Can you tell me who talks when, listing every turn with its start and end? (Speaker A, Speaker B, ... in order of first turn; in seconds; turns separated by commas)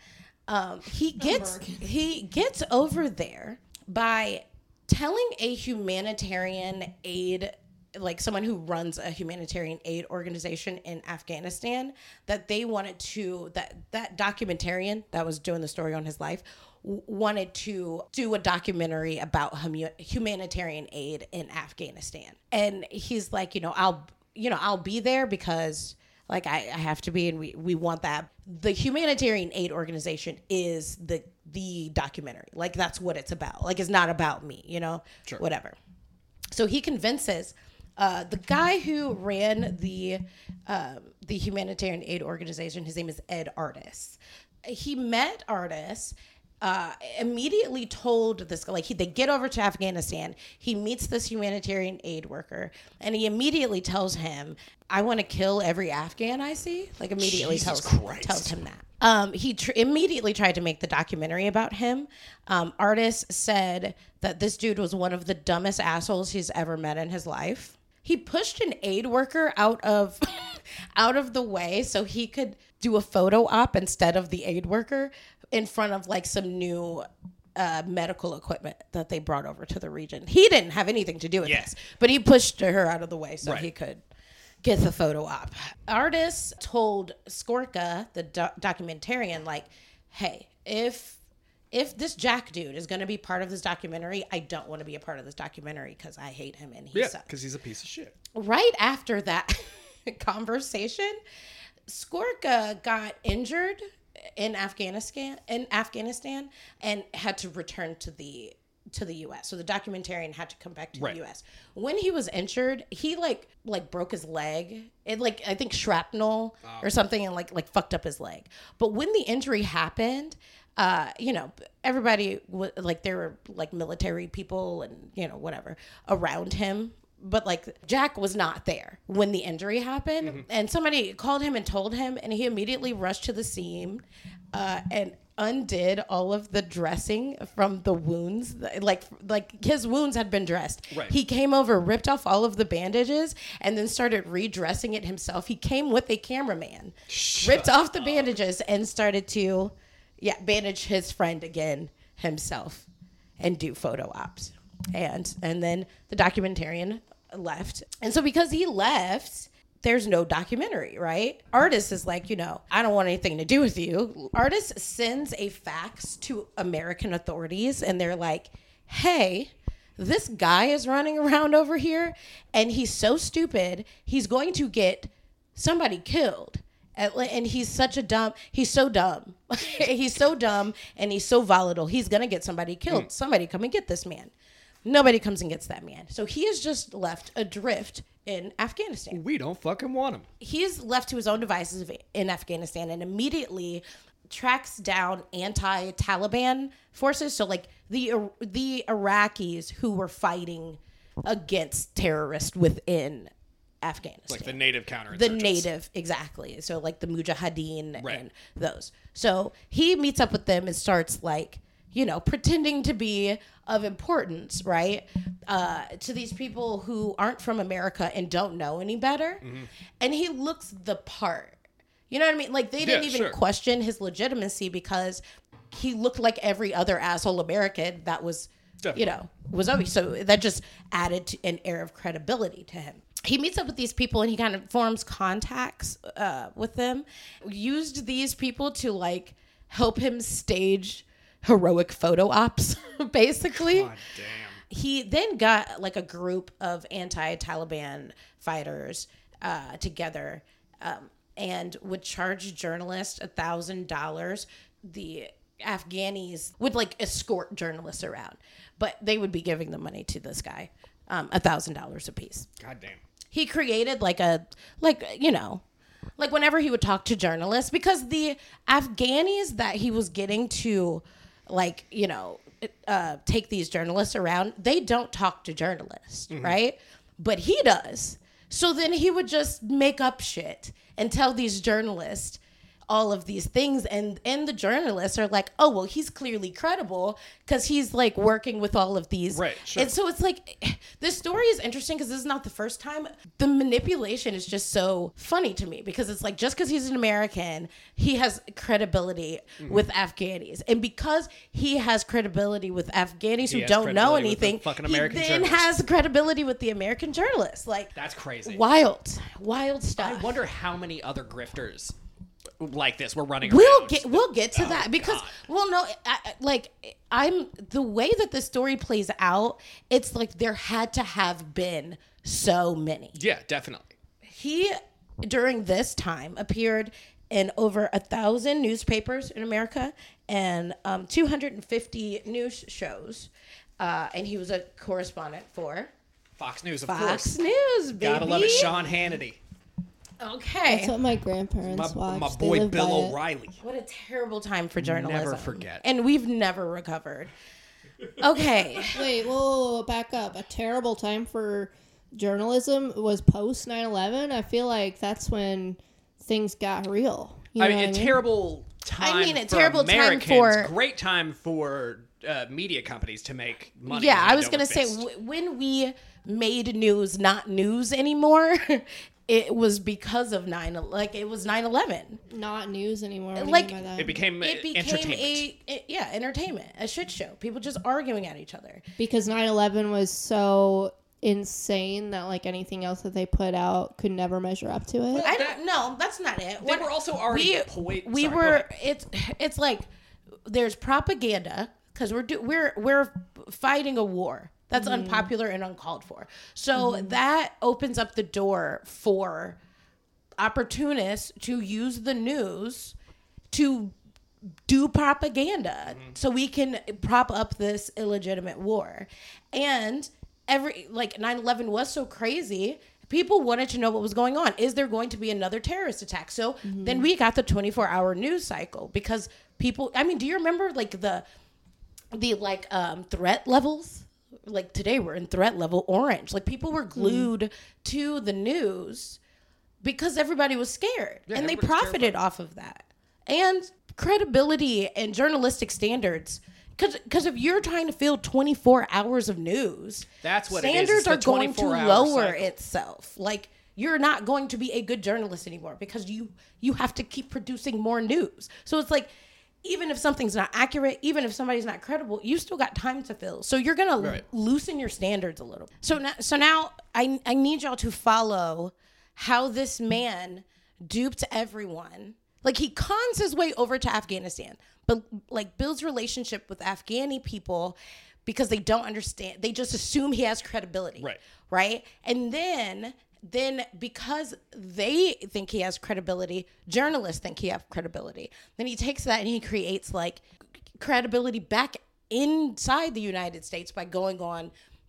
Speaker A: 0.5-35.8, Speaker B: 1.2-1.8, Speaker A: 36.5-84.0, Speaker C: 57.2-58.5, Speaker C: 81.4-81.7, Speaker C: 83.4-83.7, Speaker A: 84.6-91.2, Speaker A: 91.7-97.3, Speaker C: 96.9-98.2, Speaker A: 98.3-101.2, Speaker A: 101.9-103.8, Speaker A: 104.4-152.9, Speaker C: 140.9-141.2, Speaker C: 147.1-148.4, Speaker A: 153.4-184.3, Speaker A: 184.8-189.2, Speaker C: 189.1-190.3, Speaker A: 190.4-203.3, Speaker A: 203.8-204.6, Speaker C: 204.3-205.7, Speaker A: 205.1-219.5, Speaker C: 219.4-219.7, Speaker A: 220.0-225.2, Speaker C: 222.8-223.4, Speaker A: 225.7-243.9, Speaker C: 228.8-229.1, Speaker C: 243.6-244.6, Speaker A: 244.7-262.5, Speaker C: 262.6-263.0, Speaker A: 263.3-265.6, Speaker A: 266.2-310.3, Speaker C: 276.3-276.6, Speaker C: 289.3-289.9, Speaker C: 299.6-299.9, Speaker C: 303.4-305.7, Speaker C: 307.9-308.6, Speaker C: 310.0-311.9, Speaker C: 312.6-315.4, Speaker A: 313.4-323.2, Speaker C: 323.1-323.9, Speaker A: 324.2-335.9, Speaker C: 336.4-337.4, Speaker A: 336.8-338.9, Speaker C: 338.0-339.4, Speaker A: 340.2-340.9, Speaker B: 340.7-343.2, Speaker C: 341.6-343.6, Speaker A: 343.6-347.3, Speaker C: 344.8-345.8, Speaker C: 348.2-348.9, Speaker A: 348.2-349.0, Speaker B: 348.9-358.2, Speaker C: 357.6-365.0, Speaker A: 359.0-360.7, Speaker A: 363.9-372.2, Speaker B: 372.3-374.2, Speaker A: 373.4-373.8, Speaker C: 374.0-375.4, Speaker A: 374.4-378.8, Speaker B: 379.0-385.3, Speaker C: 385.1-385.6, Speaker A: 385.2-389.9, Speaker C: 386.6-388.7, Speaker A: 390.5-399.6, Speaker B: 394.8-395.3, Speaker B: 396.8-397.2, Speaker A: 400.4-402.9, Speaker A: 403.5-403.9, Speaker A: 404.7-421.2, Speaker B: 416.6-417.1, Speaker A: 422.1-429.2, Speaker B: 427.0-427.3, Speaker A: 429.8-449.1, Speaker C: 431.3-432.2, Speaker C: 440.2-442.5, Speaker A: 449.6-480.2, Speaker A: 480.8-484.5